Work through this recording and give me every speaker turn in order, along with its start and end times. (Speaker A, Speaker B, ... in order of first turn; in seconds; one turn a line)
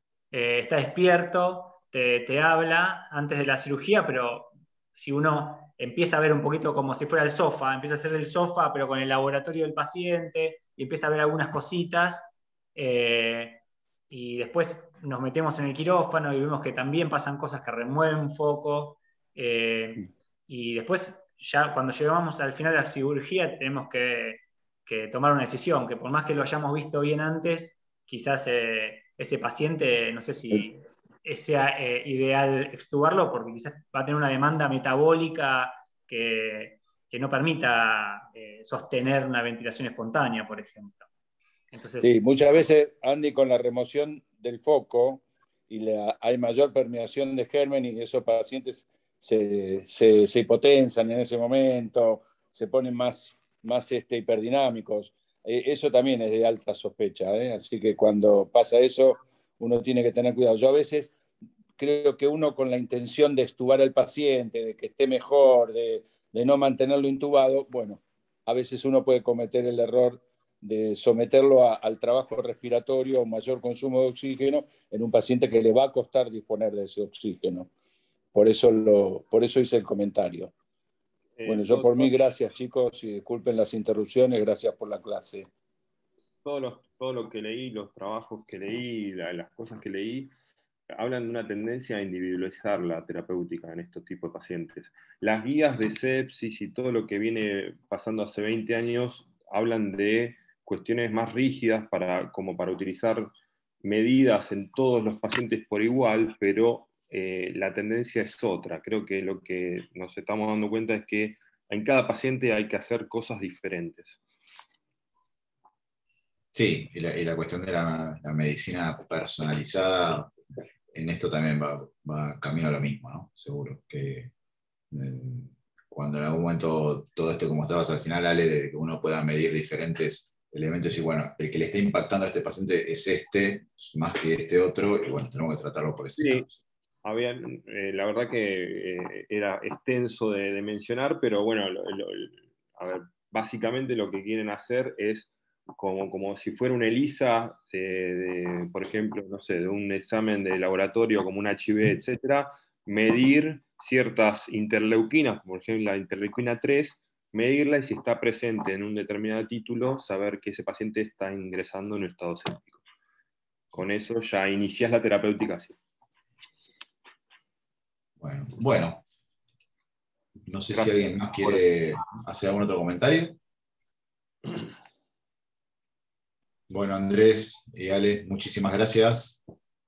Speaker A: 0.3-41.0
Speaker A: 41.7-42.1
Speaker B: 42.0-61.1
Speaker B: 61.8-77.7
Speaker B: 78.3-80.5
Speaker C: 81.4-82.1
Speaker B: 81.5-85.5
Speaker C: 86.4-90.3
Speaker C: 90.9-103.3
Speaker C: 103.8-114.2
Speaker D: 116.5-120.3
Speaker D: 120.9-124.3
Speaker D: 124.9-136.5
Speaker C: 136.2-136.4
Speaker C: 137.0-162.8
Speaker C: 163.7-165.8
Speaker D: 168.2-169.0
Speaker D: 170.5-173.4
Speaker C: 170.7-171.7
Speaker D: 176.7-179.4